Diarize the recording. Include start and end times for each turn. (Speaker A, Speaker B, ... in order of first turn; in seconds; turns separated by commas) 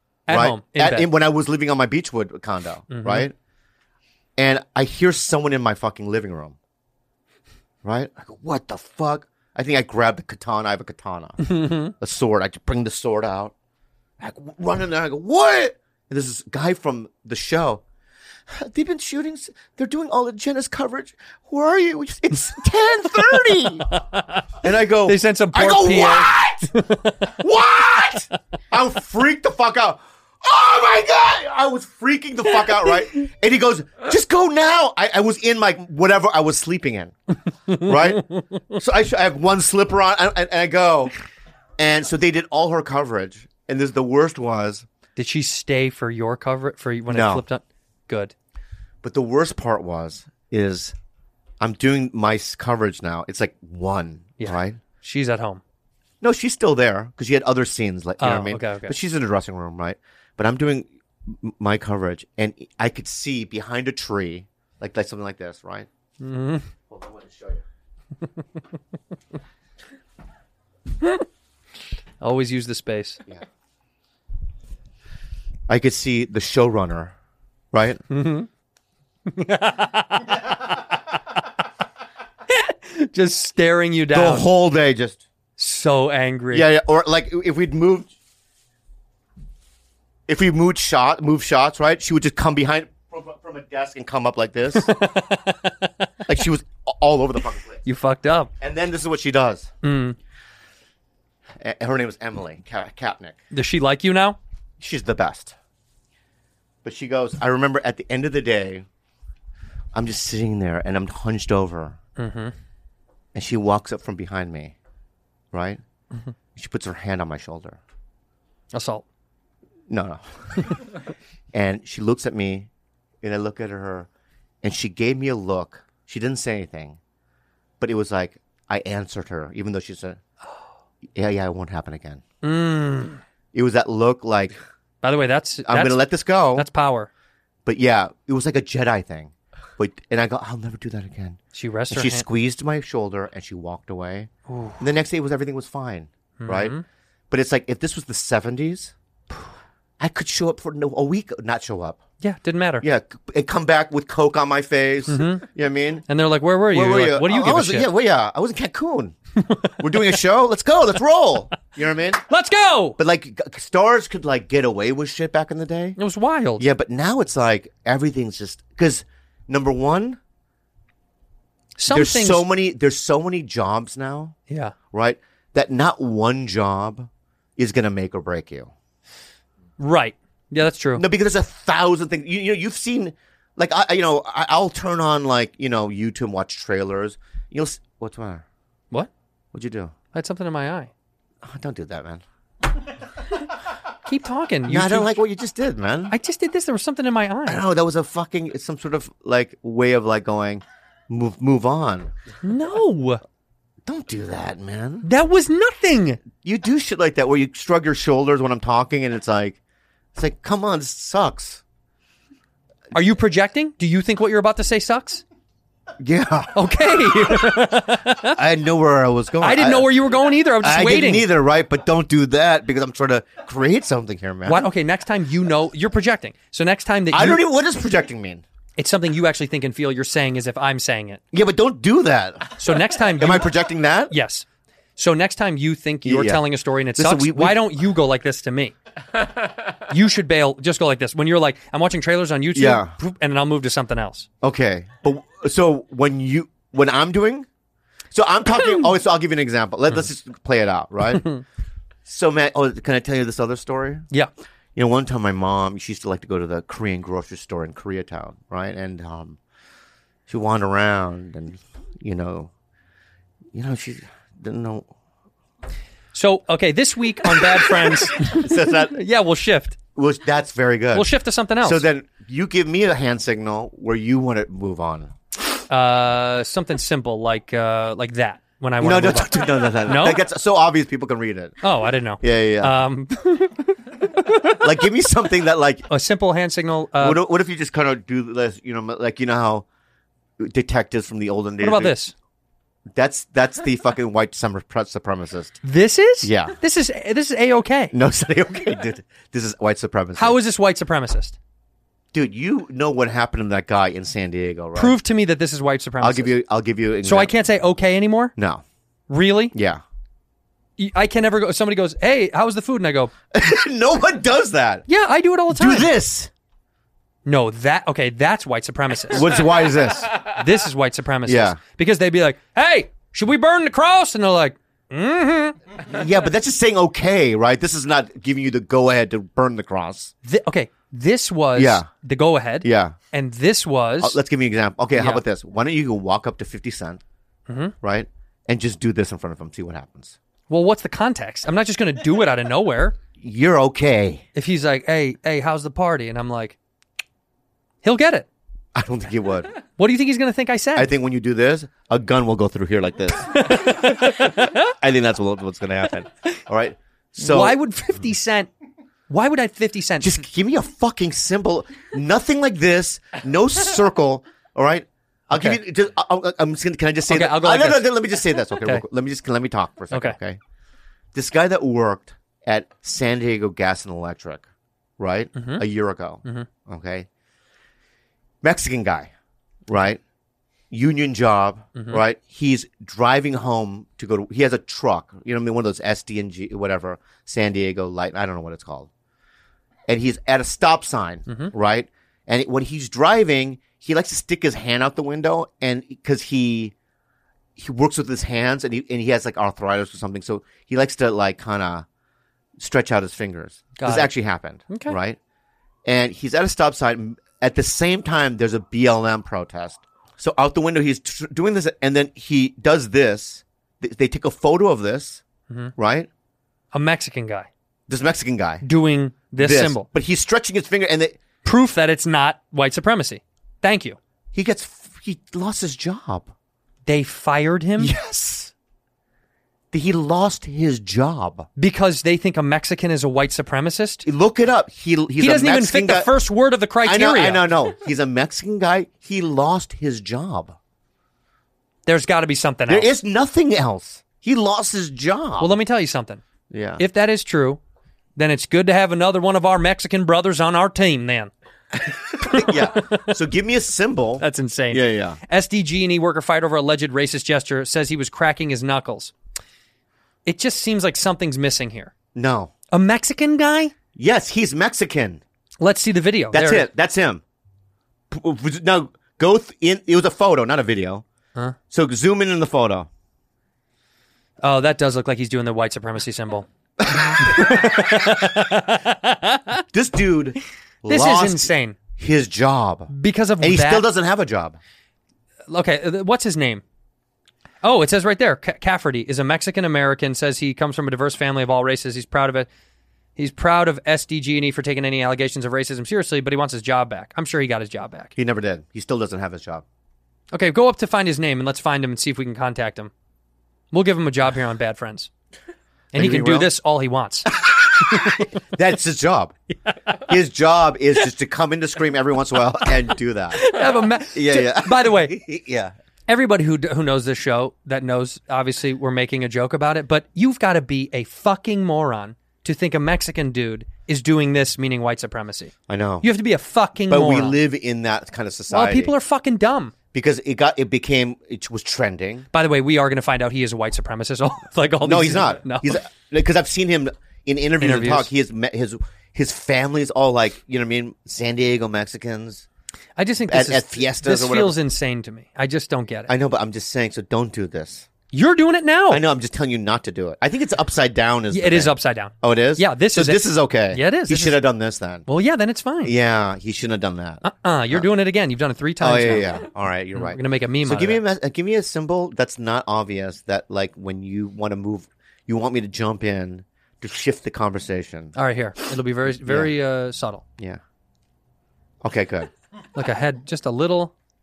Speaker A: 0.3-1.1, Speaker B: 0.3-3.3, Speaker A: 2.9-3.3, Speaker B: 4.4-6.6, Speaker B: 7.8-13.5, Speaker A: 11.4-11.9, Speaker B: 14.2-17.8, Speaker B: 18.5-23.9, Speaker A: 23.4-24.4, Speaker B: 24.6-26.7, Speaker A: 25.1-27.3, Speaker B: 27.4-37.1, Speaker A: 37.7-38.6, Speaker B: 37.8-41.1, Speaker B: 41.8-44.9, Speaker A: 45.2-48.3, Speaker B: 47.1-47.5, Speaker B: 49.0-51.0, Speaker B: 51.6-54.8, Speaker A: 54.4-55.6, Speaker B: 56.2-65.9, Speaker A: 58.2-59.0, Speaker A: 66.2-66.7, Speaker B: 66.9-67.6, Speaker A: 72.2-73.2, Speaker B: 75.7-77.1, Speaker B: 77.7-78.0, Speaker A: 78.1-78.5, Speaker A: 79.3-80.8, Speaker A: 82.5-84.5, Speaker B: 84.1-85.2, Speaker A: 85.6-86.7, Speaker B: 86.5-88.1, Speaker B: 90.3-94.9, Speaker A: 94.8-96.1, Speaker B: 96.3-97.8, Speaker A: 97.8-98.5, Speaker B: 98.6-99.7, Speaker A: 99.8-100.2, Speaker B: 101.6-103.4, Speaker A: 103.5-104.4, Speaker B: 104.8-105.6, Speaker B: 106.8-108.9, Speaker B: 109.9-112.0, Speaker A: 112.2-112.5, Speaker B: 113.3-114.8, Speaker B: 115.5-115.8, Speaker B: 116.6-117.8, Speaker A: 118.7-119.0, Speaker B: 119.9-120.8, Speaker B: 121.5-122.7, Speaker B: 123.2-124.1, Speaker B: 124.6-127.0, Speaker B: 127.8-130.2, Speaker B: 131.1-132.2, Speaker A: 132.4-133.2, Speaker B: 133.5-134.6, Speaker A: 135.0-137.1, Speaker B: 135.7-136.7, Speaker B: 137.7-141.4, Speaker A: 141.6-142.2, Speaker B: 141.9-146.8, Speaker A: 144.5-144.8, Speaker A: 146.4-146.8, Speaker B: 147.3-148.9, Speaker B: 150.0-152.0, Speaker A: 152.2-152.8, Speaker B: 152.8-156.0, Speaker A: 155.1-155.5, Speaker A: 156.1-157.9, Speaker B: 156.7-159.2, Speaker A: 159.5-160.0, Speaker B: 159.8-162.2, Speaker A: 162.3-163.0, Speaker B: 163.0-166.0, Speaker A: 166.0-166.7, Speaker B: 166.6-170.2, Speaker A: 171.8-172.5, Speaker B: 171.9-174.4, Speaker B: 174.9-178.7, Speaker A: 179.8-181.0, Speaker B: 180.9-188.4, Speaker B: 189.5-189.9, Speaker A: 190.1-190.9, Speaker B: 191.4-192.2, Speaker A: 194.1-195.2, Speaker B: 194.7-196.2, Speaker A: 196.1-197.6, Speaker B: 197.5-202.1, Speaker A: 202.4-203.2, Speaker B: 203.9-205.1, Speaker A: 205.0-206.2, Speaker B: 206.4-209.6, Speaker B: 210.2-211.6, Speaker A: 212.9-215.2, Speaker B: 216.0-217.6, Speaker A: 216.6-218.4, Speaker B: 218.2-219.9, Speaker A: 219.4-221.3, Speaker B: 220.6-224.7, Speaker A: 224.5-227.4, Speaker B: 227.1-228.4, Speaker A: 228.8-231.2, Speaker B: 231.3-232.6, Speaker A: 232.6-233.5, Speaker B: 233.2-234.1, Speaker A: 234.1-234.4, Speaker A: 235.0-238.8, Speaker B: 236.0-236.4, Speaker B: 237.0-237.6, Speaker A: 239.9-244.3, Speaker B: 242.5-242.9, Speaker B: 244.4-247.5, Speaker B: 248.1-251.3, Speaker A: 251.2-251.4, Speaker B: 252.1-254.1, Speaker B: 254.8-259.4, Speaker B: 260.3-262.5, Speaker B: 263.5-264.9, Speaker A: 266.1-269.8, Speaker B: 267.4-269.0, Speaker B: 269.9-271.1, Speaker A: 270.9-271.8, Speaker B: 271.6-275.1, Speaker A: 275.7-280.2, Speaker B: 278.8-281.6, Speaker A: 281.6-284.7, Speaker B: 282.2-282.8, Speaker B: 284.6-285.9, Speaker A: 285.9-287.2, Speaker B: 287.0-289.7, Speaker B: 290.4-292.0, Speaker A: 291.6-292.1, Speaker B: 292.9-295.6, Speaker A: 295.6-297.9, Speaker B: 296.2-296.6, Speaker B: 297.9-300.4, Speaker A: 300.2-301.4, Speaker B: 302.1-305.0, Speaker A: 304.8-306.3, Speaker B: 306.0-307.3, Speaker A: 307.0-308.4, Speaker B: 308.4-308.6, Speaker A: 309.1-309.6, Speaker B: 309.5-309.8, Speaker A: 310.8-313.1, Speaker B: 313.3-314.9, Speaker A: 314.9-315.9, Speaker B: 315.5-316.3, Speaker A: 317.3-319.3, Speaker B: 319.1-320.1, Speaker A: 320.1-325.6, Speaker B: 321.3-321.6, Speaker B: 325.9-330.1, Speaker A: 330.2-334.2, Speaker B: 331.6-331.9, Speaker B: 332.6-333.0, Speaker B: 334.0-337.0, Speaker A: 334.9-335.2, Speaker A: 337.5-337.7, Speaker B: 337.8-340.2, Speaker A: 340.5-343.0, Speaker B: 343.2-344.2, Speaker A: 344.4-346.6, Speaker A: 347.8-348.3, Speaker B: 348.8-349.5, Speaker A: 349.8-350.9, Speaker B: 350.8-357.6, Speaker A: 353.5-354.6, Speaker A: 357.2-358.5, Speaker A: 359.1-360.2, Speaker B: 360.0-370.4, Speaker A: 365.3-365.6, Speaker A: 367.1-367.9, Speaker A: 369.9-370.2, Speaker B: 371.1-374.5, Speaker B: 375.0-377.1, Speaker A: 375.4-375.6, Speaker B: 378.4-379.1, Speaker B: 379.7-380.0, Speaker B: 380.7-388.9, Speaker A: 381.8-382.0, Speaker B: 389.9-396.7, Speaker A: 391.3-391.5, Speaker B: 397.6-401.9, Speaker B: 402.6-405.2, Speaker A: 403.8-404.1, Speaker A: 404.7-405.0, Speaker B: 405.9-415.2, Speaker B: 415.8-416.1, Speaker A: 416.7-417.5, Speaker B: 417.9-418.6, Speaker A: 418.6-419.9, Speaker B: 419.4-421.2, Speaker A: 421.4-424.0, Speaker B: 424.3-426.3, Speaker A: 426.9-427.9, Speaker B: 427.8-428.5, Speaker B: 429.7-431.5, Speaker A: 431.6-434.1, Speaker B: 434.1-436.1, Speaker A: 435.2-437.5, Speaker B: 436.8-440.6, Speaker A: 441.9-442.9, Speaker B: 442.7-445.6, Speaker A: 445.4-446.2, Speaker B: 446.5-446.8, Speaker A: 446.8-447.6, Speaker A: 448.2-451.3, Speaker B: 451.9-455.2, Speaker A: 452.2-453.1, Speaker A: 454.2-459.1, Speaker A: 460.3-461.9, Speaker B: 462.1-462.5, Speaker A: 462.7-463.7, Speaker B: 463.9-465.2, Speaker A: 465.6-466.7, Speaker B: 466.3-467.2, Speaker B: 468.1-471.1, Speaker B: 471.7-472.9, Speaker A: 474.4-476.5, Speaker B: 476.8-477.5, Speaker A: 477.2-479.6, Speaker B: 479.7-484.6, Speaker A: 480.9-481.8, Speaker A: 482.9-483.9, Speaker A: 485.5-486.6, Speaker A: 487.6-492.5, Speaker A: 493.2-498.1, Speaker B: 498.2-499.6, Speaker A: 500.3-502.9, Speaker A: 503.7-505.1, Speaker B: 505.9-506.5, Speaker A: 505.9-507.3, Speaker B: 507.8-509.4, Speaker B: 510.0-513.5, Speaker A: 513.3-515.2, Speaker B: 514.1-515.7, Speaker A: 516.1-525.5, Speaker B: 525.7-526.1, Speaker A: 526.0-527.4, Speaker B: 526.9-528.9, Speaker A: 528.5-529.7, Speaker B: 529.9-532.3, Speaker A: 532.3-535.8, Speaker B: 534.8-542.5, Speaker A: 537.6-538.1, Speaker A: 543.0-546.1, Speaker B: 543.3-544.6, Speaker B: 546.1-547.9, Speaker A: 548.1-549.0, Speaker B: 548.9-555.1, Speaker A: 551.3-554.4, Speaker A: 555.1-555.9, Speaker B: 555.8-557.9, Speaker A: 557.2-559.4, Speaker B: 558.8-568.1, Speaker A: 560.0-561.0, Speaker A: 568.2-570.2, Speaker B: 569.2-569.5, Speaker B: 571.8-572.3, Speaker A: 572.8-573.9